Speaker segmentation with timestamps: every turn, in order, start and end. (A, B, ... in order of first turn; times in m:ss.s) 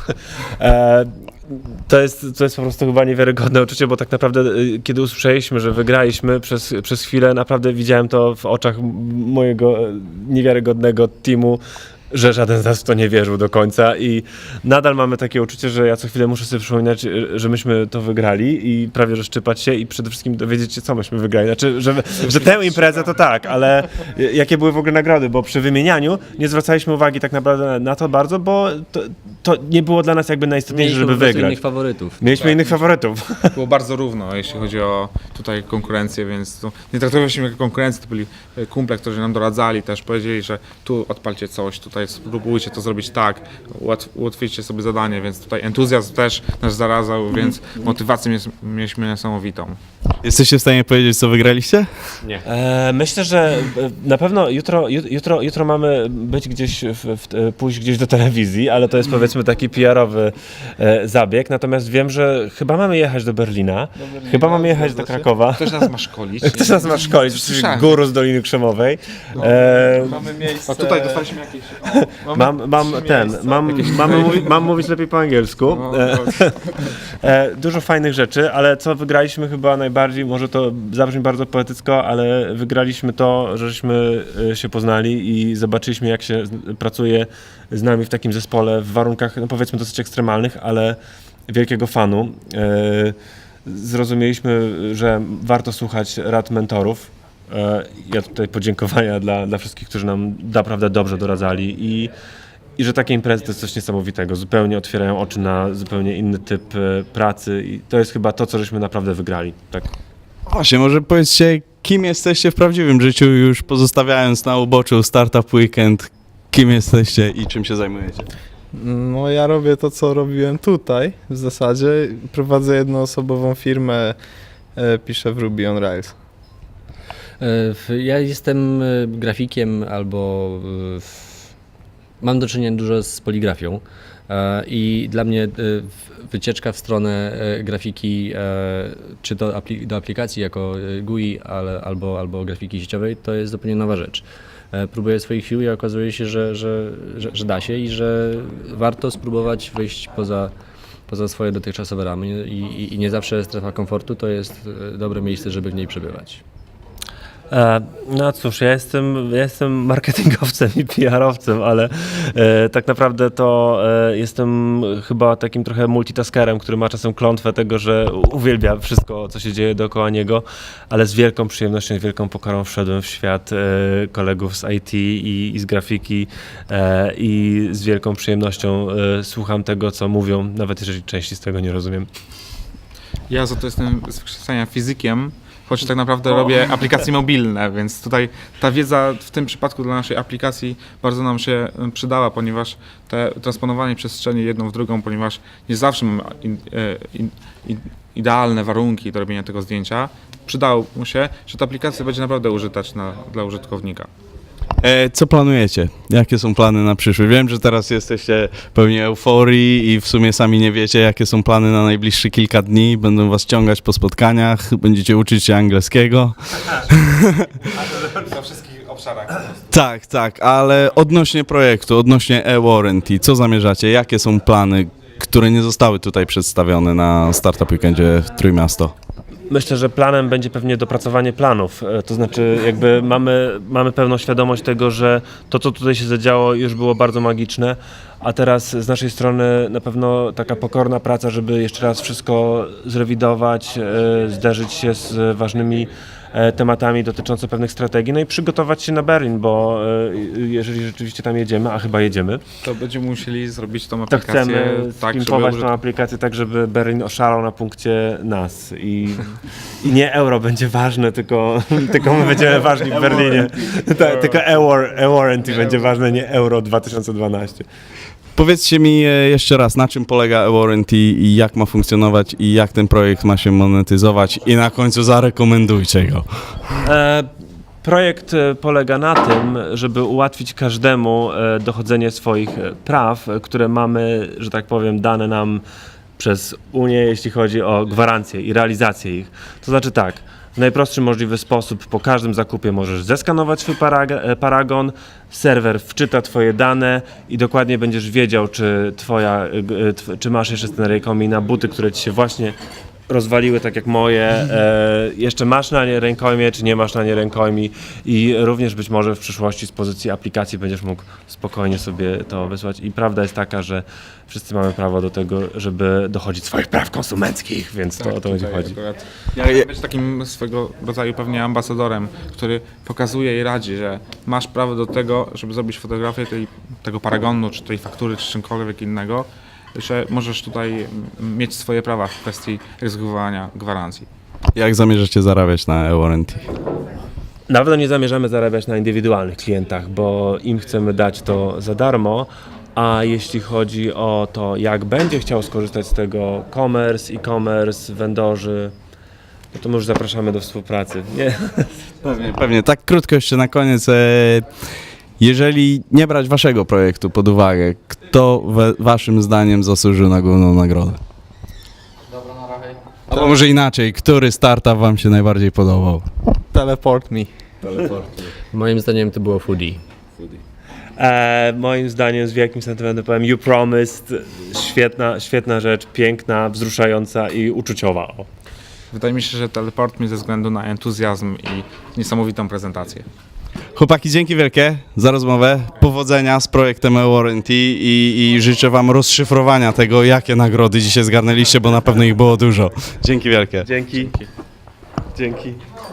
0:00.4-0:31.6 A
0:22.4-0:22.9 B
0:30.7-0:32.2 C
0:32.2-0:33.6 A
0:32.4-0:32.8 B
0:33.5-0:49.8 B
0:50.2-0:51.9 D
0:52.4-1:05.9 A
1:04.1-1:05.2 E
1:05.5-1:07.9 B
1:06.4-1:10.2 A
1:10.1-1:12.0 B
1:10.2-1:11.2 E
1:11.8-1:42.1 A
1:12.2-1:13.8 E
1:13.8-1:14.4 B
1:15.7-1:16.4 B
1:42.8-1:49.9 A
1:50.5-1:58.3 D
1:58.7-2:04.2 E
2:04.8-2:06.1 E
2:07.4-2:11.5 C
2:12.2-2:30.5 C
2:31.1-2:36.4 C
2:37.5-3:02.1 A
3:03.3-3:24.1 B
3:24.8-3:37.5 D
3:37.7-3:39.6 B
3:39.7-3:48.9 D
3:49.5-4:12.4 A
4:12.6-4:15.8 B
4:14.1-4:27.6 A
4:22.9-4:23.4 B
4:24.0-4:24.3 B
4:28.4-4:36.2 D
4:36.8-4:37.3 A
4:37.8-4:45.6 A
4:46.2-5:02.6 A
5:03.1-5:18.8 A
5:18.0-5:34.1 B
5:34.5-5:36.4 D
5:37.5-5:48.7 A
5:49.5-5:51.8 A
5:52.0-5:54.5 D
5:55.2-6:01.0 D
6:03.1-6:06.1 D
6:06.5-6:07.9 E
6:08.2-6:09.8 C
6:11.0-6:18.3 A
6:18.9-6:23.1 B
6:23.7-6:33.7 D
6:33.6-6:34.1 A
6:35.1-6:35.6 A